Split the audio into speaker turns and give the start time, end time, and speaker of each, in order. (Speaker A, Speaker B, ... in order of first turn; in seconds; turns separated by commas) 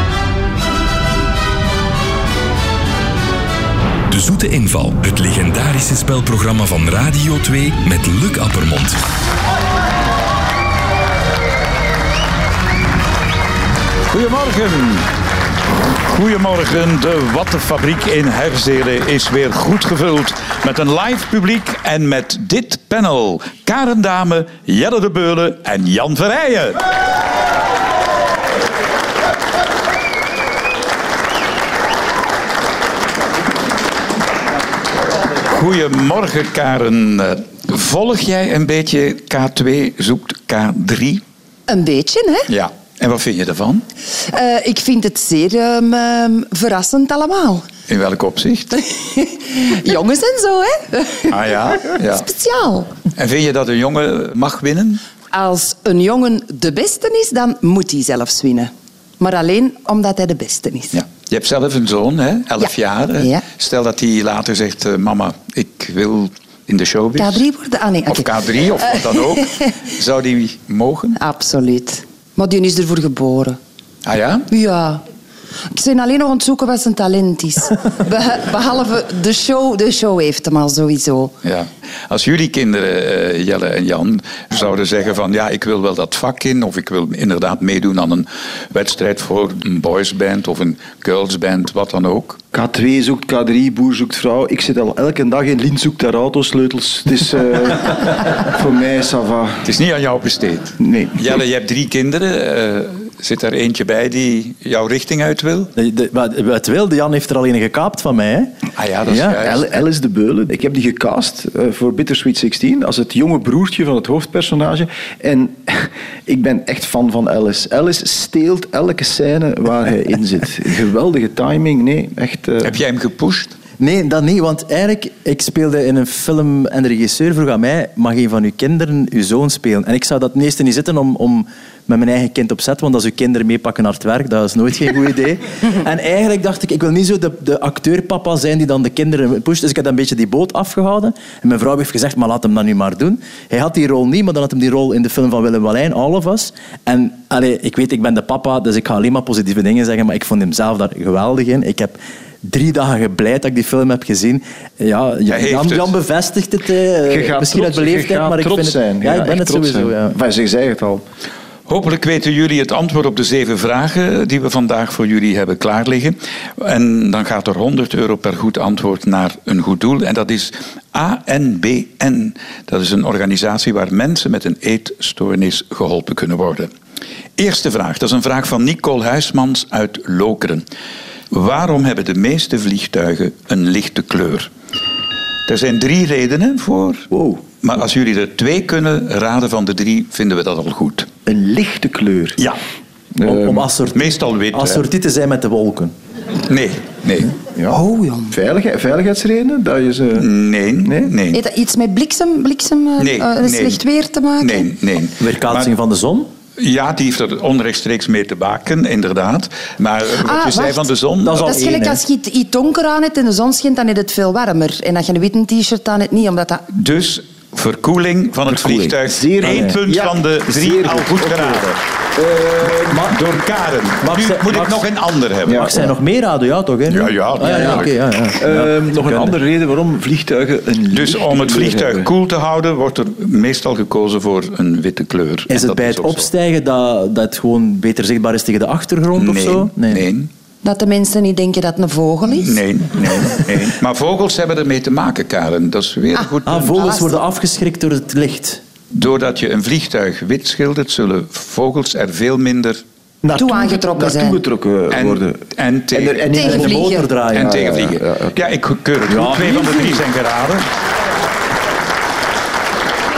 Speaker A: 4.1-8.9, Speaker B: 14.1-15.1, Speaker B: 16.0-26.8, Speaker B: 35.4-41.2, Speaker C: 41.7-42.5, Speaker B: 42.5-43.8, Speaker C: 44.2-47.6, Speaker B: 47.9-48.7, Speaker C: 48.7-51.3, Speaker B: 51.3-52.3, Speaker C: 52.1-52.9, Speaker B: 53.1-55.0, Speaker C: 55.3-60.9, Speaker B: 60.9-67.4, Speaker C: 62.6-63.4, Speaker C: 67.2-68.3, Speaker B: 68.1-71.2, Speaker C: 69.0-69.4, Speaker C: 71.2-73.6, Speaker B: 74.0-74.5, Speaker C: 74.5-75.0, Speaker C: 75.7-81.3, Speaker B: 81.4-92.4, Speaker D: 92.5-99.6, Speaker B: 99.6-105.7, Speaker D: 100.8-101.2, Speaker E: 105.8-108.5, Speaker B: 108.7-109.8, Speaker E: 109.0-109.4, Speaker D: 109.3-122.7, Speaker B: 122.6-123.5, Speaker E: 123.8-160.2, Speaker B: 155.3-155.9, Speaker D: 157.1-161.0, Speaker B: 161.7-176.7, Speaker B: 177.4-180.6, Speaker B: 181.3-184.5, Speaker B: 185.5-187.1, Speaker D: 187.1-187.4, Speaker B: 187.6-191.1, Speaker D: 191.2-192.4, Speaker D: 193.2-193.7, Speaker E: 193.2-195.9, Speaker B: 193.9-194.8, Speaker B: 196.5-197.3, Speaker D: 197.6-200.3, Speaker C: 197.7-198.3, Speaker B: 200.2-201.4, Speaker D: 200.8-201.1, Speaker C: 201.3-204.7, Speaker B: 203.0-203.8, Speaker B: 204.4-205.7, Speaker E: 205.2-206.3, Speaker B: 206.6-211.5, Speaker C: 210.2-210.9, Speaker E: 211.2-212.0, Speaker C: 211.4-216.7, Speaker B: 216.7-221.7, Speaker D: 218.4-223.1, Speaker E: 219.5-219.8, Speaker E: 222.9-223.2, Speaker B: 223.1-225.7, Speaker E: 224.0-224.8, Speaker D: 225.5-225.9, Speaker E: 225.5-229.3, Speaker B: 226.9-227.9, Speaker D: 227.4-227.8, Speaker D: 228.4-232.1, Speaker B: 230.9-236.3, Speaker E: 235.5-240.0, Speaker B: 239.2-240.3, Speaker C: 240.6-242.6, Speaker B: 242.3-246.9, Speaker E: 246.4-248.6, Speaker C: 246.8-247.2, Speaker B: 248.9-252.8, Speaker D: 253.2-258.4, Speaker C: 253.3-254.4, Speaker B: 254.9-256.2, Speaker C: 256.3-257.1, Speaker E: 256.4-257.7, Speaker B: 257.3-260.6, Speaker E: 259.1-260.0